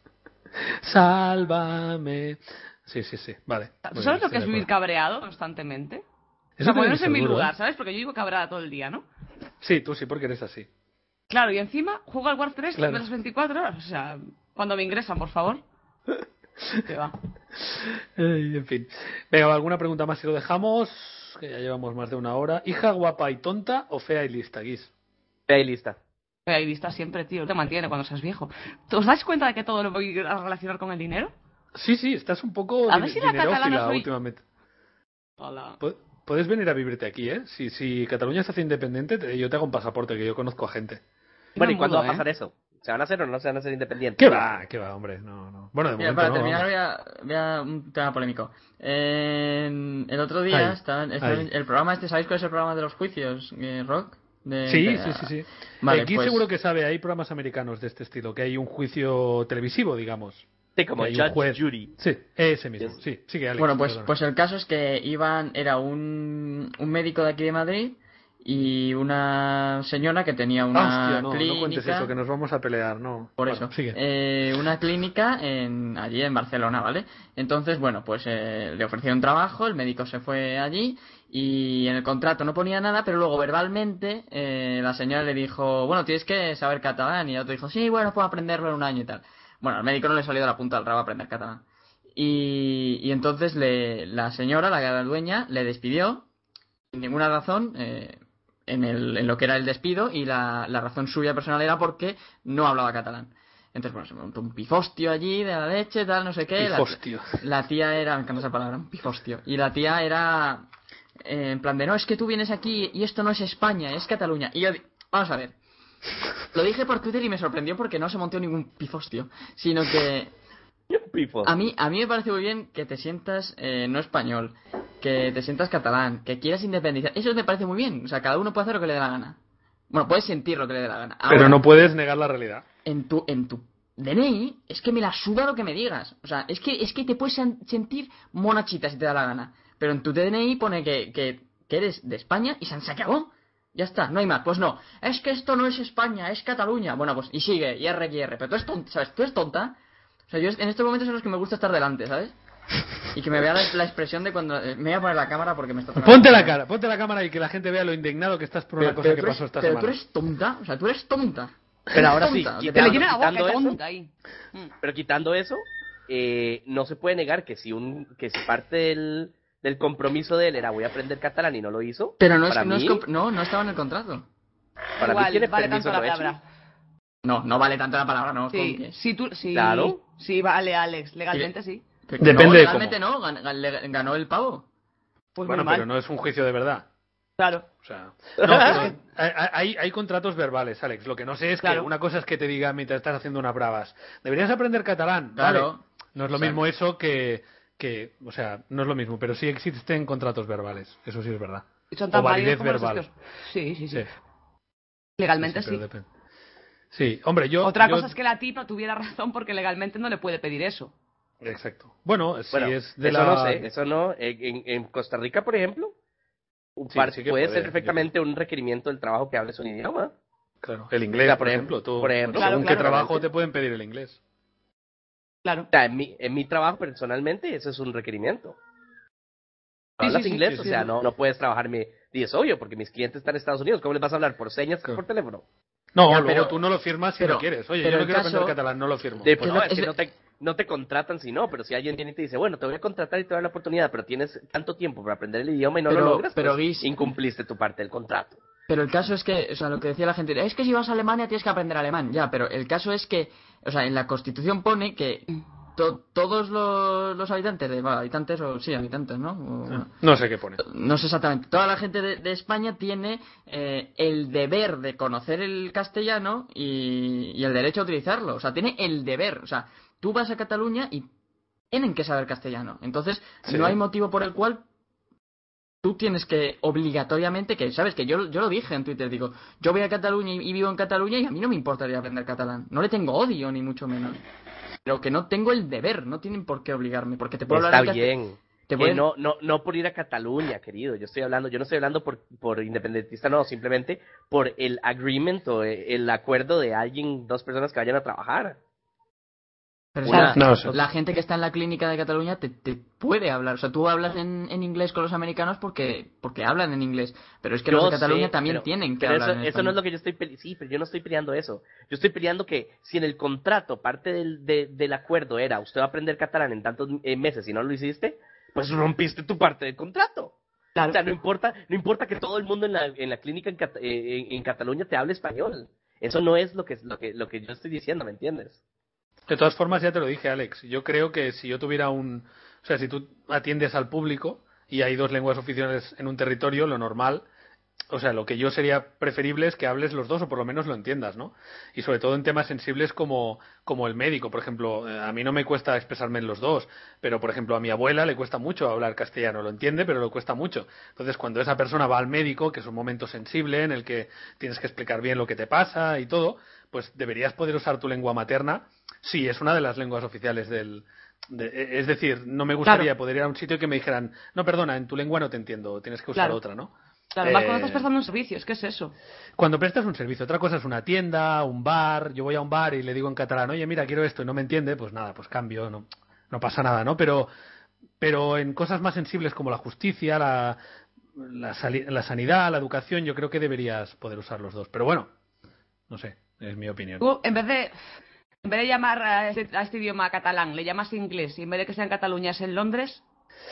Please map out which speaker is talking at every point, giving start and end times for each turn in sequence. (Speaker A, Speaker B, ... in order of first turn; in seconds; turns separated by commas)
Speaker A: 0.8-4.7, Speaker B: 3.8-6.0, Speaker A: 6.6-7.5, Speaker B: 6.6-9.1, Speaker A: 9.6-10.7, Speaker B: 11.3-15.6, Speaker A: 12.8-13.1, Speaker B: 16.9-17.1, Speaker A: 17.6-24.9, Speaker C: 25.5-26.0, Speaker B: 26.5-31.3, Speaker A: 31.8-34.4, Speaker B: 32.9-34.1, Speaker B: 35.4-35.8, Speaker A: 35.8-41.0, Speaker B: 41.6-42.2, Speaker C: 41.6-44.5, Speaker A: 44.2-46.7, Speaker D: 46.0-56.5, Speaker A: 50.5-51.5, Speaker A: 54.7-60.5, Speaker C: 60.8-61.9, Speaker A: 61.0-64.1, Speaker D: 63.6-72.1, Speaker A: 70.7-74.0, Speaker D: 73.4-91.6, Speaker D: 92.2-96.3, Speaker D: 96.9-110.7, Speaker A: 106.6-107.4, Speaker D: 111.2-115.5, Speaker D: 116.5-120.3, Speaker C: 120.9-121.5, Speaker D: 121.4-129.4, Speaker D: 129.9-131.6, Speaker A: 131.3-132.7, Speaker D: 132.8-149.8, Speaker D: 150.3-152.3, Speaker D: 153.1-156.6, Speaker A: 156.0-160.0, Speaker D: 158.8-163.1, Speaker C: 161.9-163.8, Speaker B: 162.8-164.7, Speaker C: 164.8-173.0, Speaker D: 172.2-174.3, Speaker C: 175.0-176.3, Speaker B: 175.0-176.4, Speaker D: 177.2-178.9, Speaker B: 178.5-181.8, Speaker C: 179.5-180.0, Speaker D: 182.1-184.7, Speaker A: 182.2-183.0, Speaker B: 185.4-185.9, Speaker A: 185.4-186.9, Speaker B: 187.4-187.7, Speaker A: 187.8-203.1, Speaker C: 188.4-188.8, Speaker B: 191.6-191.9, Speaker D: 195.4-196.6, Speaker B: 201.9-204.1, Speaker B: 205.2-205.8, Speaker A: 205.4-206.1, Speaker A: 206.9-208.1, Speaker B: 207.6-210.9, Speaker A: 211.4-213.7, Speaker C: 212.5-215.9, Speaker C: 216.8-220.1, Speaker A: 216.9-218.1, Speaker A: 220.6-224.2, Speaker C: 221.2-223.2, Speaker B: 222.4-223.1, Speaker C: 225.7-228.6, Speaker C: 230.0-235.4, Speaker B: 230.0-230.9, Speaker A: 235.9-239.4, Speaker D: 236.1-236.6, Speaker D: 237.2-238.6, Speaker C: 239.2-248.4, Speaker D: 239.4-239.9, Speaker D: 245.9-246.9, Speaker D: 248.7-259.9, Speaker A: 259.7-260.6, Speaker D: 260.6-271.1, Speaker D: 271.7-274.6, Speaker A: 273.4-273.8, Speaker D: 275.8-284.2, Speaker D: 284.9-288.1, Speaker C: 287.5-298.6, Speaker D: 288.7-289.1, Speaker D: 299.9-309.8, Speaker C: 300.1-300.4, Speaker A: 300.3-300.8, Speaker C: 307.7-320.3, Speaker C: 320.9-328.6, Speaker A: 329.3-337.3, Speaker A: 337.9-366.7, Speaker B: 367.1-368.9, Speaker A: 367.2-367.9, Speaker A: 369.4-377.3, Speaker A: 378.0-380.6, Speaker A: 381.2-385.1, Speaker A: 385.9-387.0, Speaker B: 387.0-387.8, Speaker B: 388.4-393.0